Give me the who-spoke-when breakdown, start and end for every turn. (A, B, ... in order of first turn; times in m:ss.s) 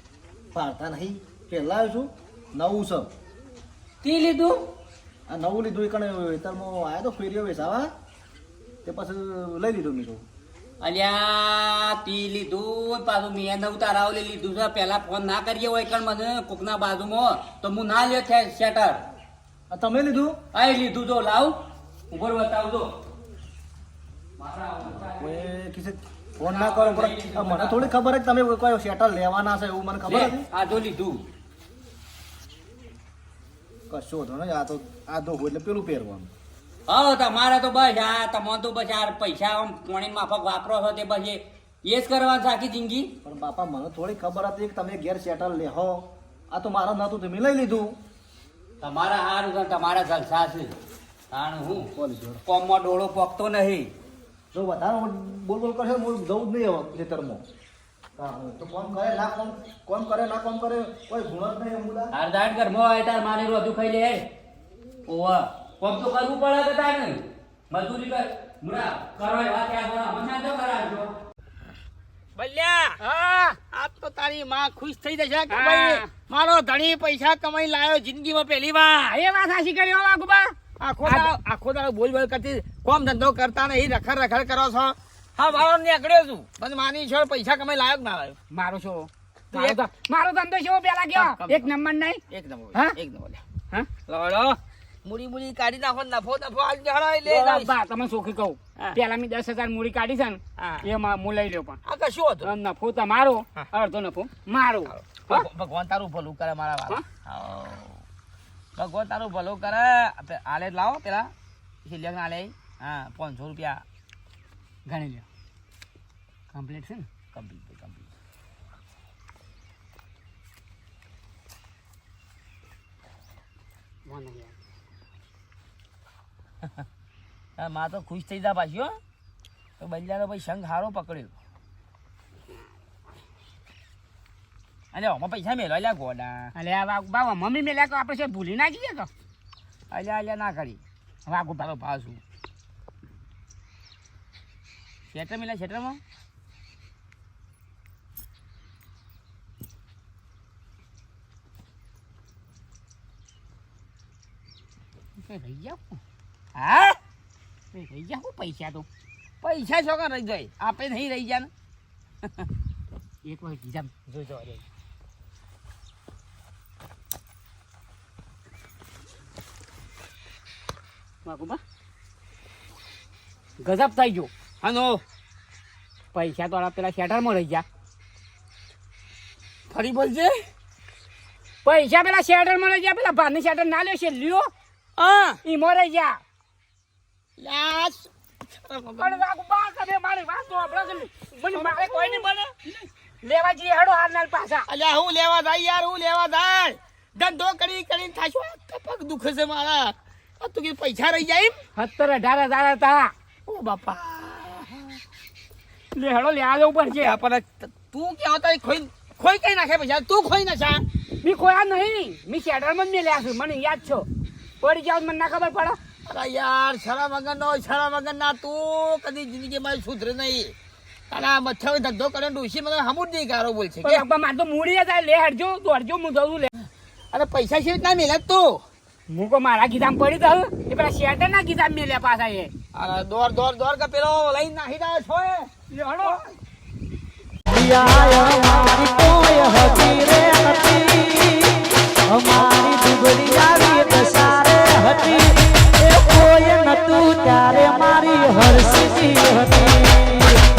0:00.5-0:03.1 A
0:04.0-0:04.6 B
0:05.3-0:07.9 A
0:08.8-0:10.2 A
0:10.8-0:19.0 B
0:19.7-0:20.4 A
0:20.5-0:21.5 B
0:22.1-0:22.9 B
0:24.4-0:25.4 B
0:25.2-0:30.4 A
0:26.4-0:27.9 B
0:30.1-0:31.2 B
0:33.9-0:36.3 A
0:36.9-0:43.1 B
0:43.2-0:48.0 A
0:48.8-0:50.7 B
0:51.3-0:51.9 B
0:51.9-0:52.4 A
0:52.4-0:53.9 B
0:54.5-0:57.4 A
0:58.2-1:02.1 A
1:02.1-1:04.2 B
1:05.1-1:07.2 B
1:07.7-1:11.1 B
1:12.4-1:13.0 C
1:13.0-1:13.6 D
1:13.6-1:19.2 C
1:15.5-1:16.1 D
1:19.1-1:21.3 D
1:20.8-1:28.4 C
1:28.5-1:32.2 D
1:29.5-1:29.8 C
1:31.1-1:31.7 C
1:32.3-1:33.4 C
1:34.1-1:37.7 C
1:37.2-1:41.8 D
1:40.6-1:40.8 C
1:41.8-1:42.5 C
1:42.4-1:45.5 D
1:44.9-1:48.0 C
1:48.8-1:51.3 C
1:51.8-1:53.8 C
1:54.9-1:55.2 D
1:56.5-1:57.1 D
1:57.3-1:58.1 C
2:04.0-2:04.6 D
2:07.6-2:09.0 C
2:09.8-2:11.3 C
2:14.9-2:16.5 C
2:16.5-2:19.1 D
2:19.9-2:20.8 C
2:21.3-2:21.6 D
2:21.6-2:22.2 C
2:25.1-2:26.0 C
2:35.2-2:36.0 D
2:36.5-2:37.0 C
2:37.7-2:38.9 D
2:39.4-2:41.5 C
2:42.2-2:42.5 C
2:43.2-2:44.6 D
2:51.2-2:51.6 D
2:53.6-2:54.3 D
2:54.6-2:55.0 C
2:56.1-2:57.6 D
2:59.7-3:00.4 C
3:01.6-3:04.5 D
3:05.0-3:05.4 C
3:05.4-3:06.2 D
3:07.4-3:09.2 C
3:09.0-3:12.3 D
3:11.5-3:12.5 C
3:13.2-3:14.6 D
3:14.7-3:21.6 C
3:21.8-3:23.1 D
3:23.5-3:25.0 C
3:26.0-3:27.1 D
3:27.0-3:30.8 C
3:31.2-3:34.1 D
3:34.6-3:35.8 D
3:36.1-3:40.5 C
3:41.1-3:44.0 C
3:43.8-3:46.5 D
3:47.1-3:48.6 C
3:49.1-3:52.5 D
3:52.7-3:56.2 C
3:57.5-4:01.4 E
4:02.1-4:10.3 E